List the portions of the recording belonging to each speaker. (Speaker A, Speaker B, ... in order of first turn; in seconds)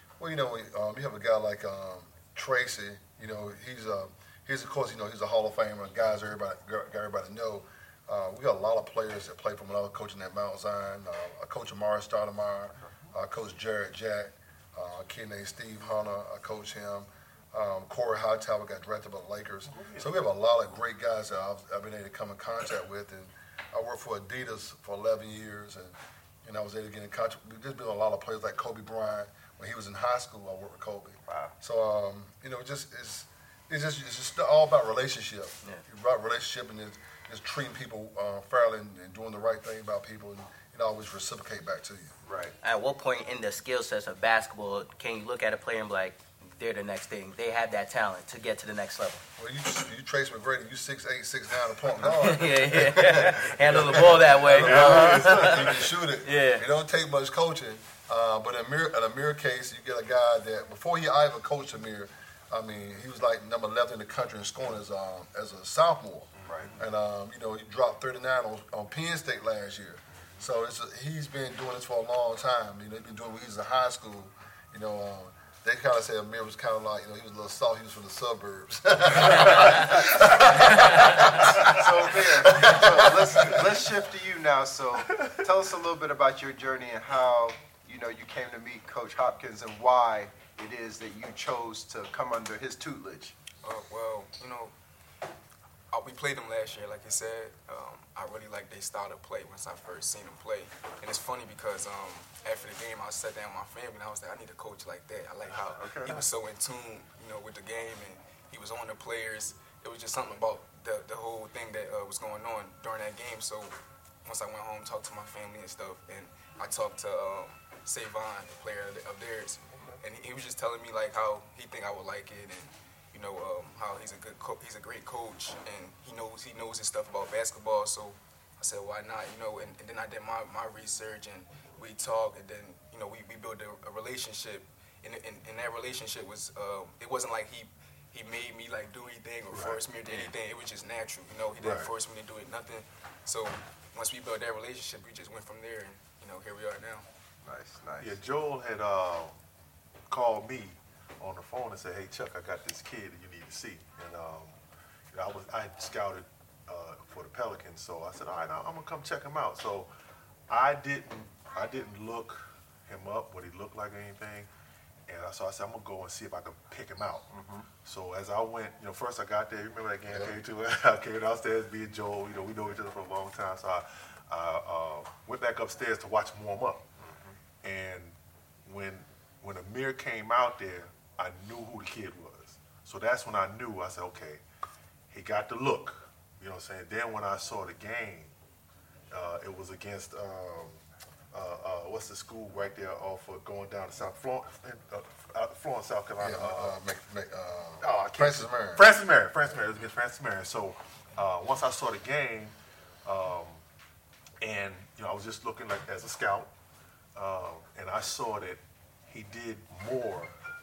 Speaker A: 0.2-42.1, 49.4-83.7, 196.2-198.9
Speaker B: 19.7-20.1, 53.9-55.9, 66.4-66.8, 79.4-79.8, 85.1-85.4, 105.5-106.2, 139.5-139.8, 141.6-141.9, 148.0-149.3, 150.1-154.6, 155.1-159.9, 160.5-164.5, 165.1-167.3, 167.8-177.1, 177.6-184.4, 185.1-188.4, 189.1-190.8, 191.3-196.8, 197.8-203.6, 204.4-206.5, 207.2-210.3
Speaker C: 31.3-31.5, 42.2-42.5, 66.5-66.7, 81.1-93.3, 147.4-148.2, 167.3-167.7, 177.0-177.3
Speaker D: 42.6-49.2, 52.0-56.6
Speaker E: 93.6-94.7, 95.9-147.1